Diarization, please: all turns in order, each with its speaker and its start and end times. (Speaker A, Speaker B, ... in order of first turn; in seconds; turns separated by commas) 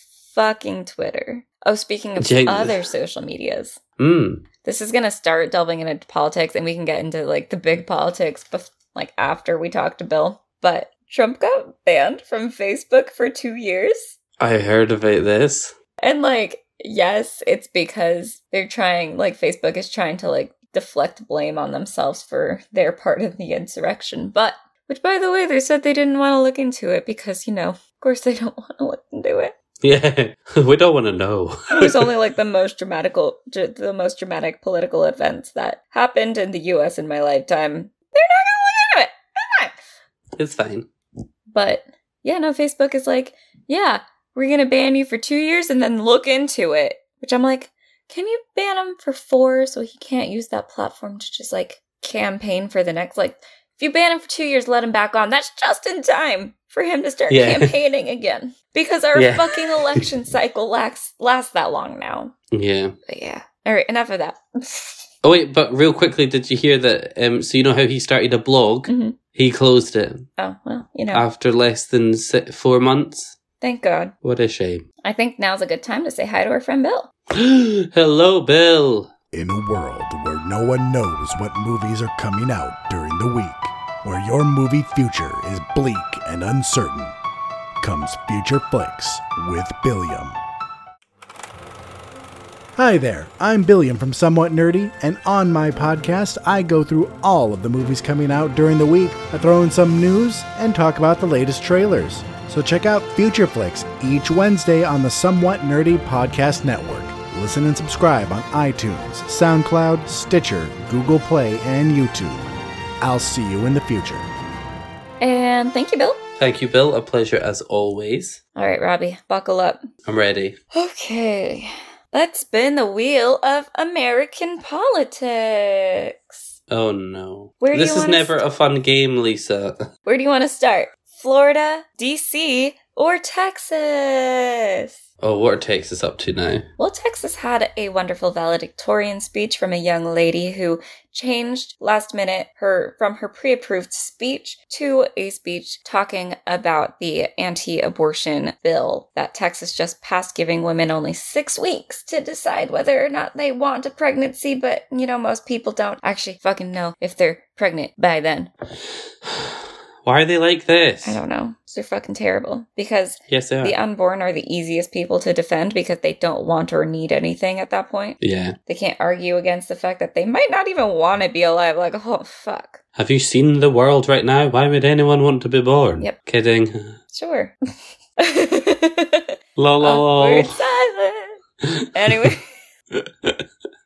Speaker A: 0.2-3.8, Speaker B: 2.2-2.8, Speaker B: 4.0-4.4, Speaker A: 4.6-14.2, Speaker B: 14.4-15.7, Speaker A: 16.0-29.5, Speaker B: 29.8-32.1, Speaker A: 31.7-39.8, Speaker B: 40.4-40.9, Speaker A: 41.5-62.3, Speaker B: 57.3-57.7, Speaker B: 59.1-60.0, Speaker B: 62.5-62.9, Speaker A: 63.1-65.1, Speaker B: 65.2-70.3, Speaker A: 68.9-69.2, Speaker A: 70.4-71.2, Speaker B: 71.1-73.4, Speaker A: 73.6-74.1, Speaker B: 74.2-74.8, Speaker A: 75.0-77.1, Speaker B: 77.3-79.1, Speaker C: 79.3-87.1, Speaker C: 87.8-90.4, Speaker C: 92.8-112.4, Speaker C: 113.0-114.3, Speaker A: 115.2-116.2, Speaker B: 116.4-118.4, Speaker A: 118.5-119.9, Speaker B: 120.0-120.6, Speaker A: 120.7-126.5, Speaker B: 126.7-129.9, Speaker A: 127.6-128.4, Speaker A: 130.1-134.9, Speaker B: 135.2-136.7, Speaker A: 136.8-158.5, Speaker B: 159.2-161.2, Speaker A: 161.0-172.8, Speaker B: 163.3-163.8, Speaker B: 168.2-168.6, Speaker B: 172.9-176.9, Speaker A: 177.1-177.5, Speaker A: 178.2-181.4, Speaker B: 179.6-180.5, Speaker B: 181.7-182.3, Speaker A: 181.9-182.5, Speaker B: 182.9-183.4